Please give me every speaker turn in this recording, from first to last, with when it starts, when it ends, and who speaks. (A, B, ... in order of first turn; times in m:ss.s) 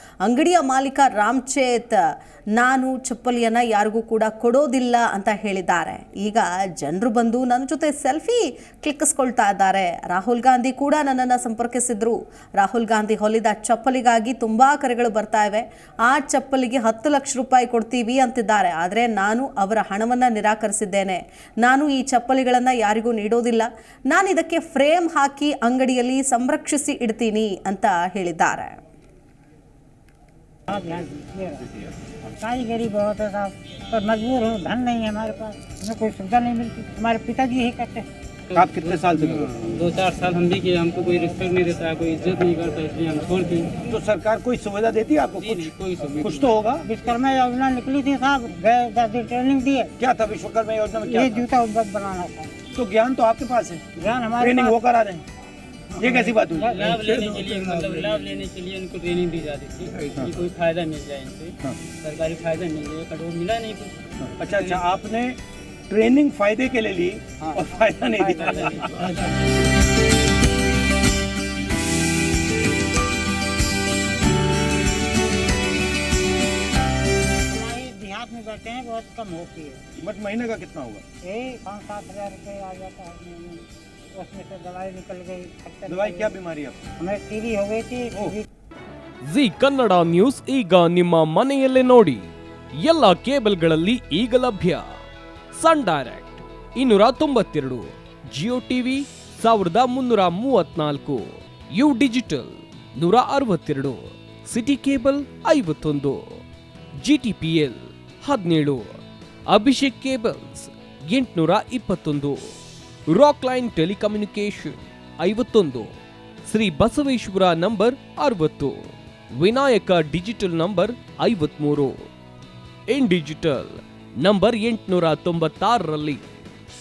0:00.2-0:02.0 A
0:02.6-0:28.8 A
0:30.7-0:31.7 B
0:32.4-0:38.1 B
0:38.5-0:39.6 C
0:39.6-0:43.7 D
0:43.9-0:46.9 C
0:45.7-0:46.0 D
0:46.8-0:49.9 B
0:50.0-0:51.5 C
0:51.1-0:52.5 B
0:52.7-0:53.8 C
0:54.0-0:54.8 B
0:54.4-0:55.2 C
0:56.0-0:58.2 C
0:56.0-0:57.9 B
0:57.0-1:01.5 D
1:02.0-1:03.9 D
1:04.4-1:05.4 C
1:05.9-1:09.1 C
1:08.2-1:08.5 B
1:17.5-1:19.8 B
1:20.0-1:21.0 C
1:21.2-1:26.3 B
1:25.9-1:26.8 C
1:27.0-1:28.5 B
1:29.2-1:32.3 E
1:32.8-1:34.9 E
1:35.6-1:46.4 E
1:47.0-1:48.8 E
1:49.5-1:52.5 E
1:53.1-1:55.9 E
1:56.5-2:02.0 E
2:02.9-2:06.2 E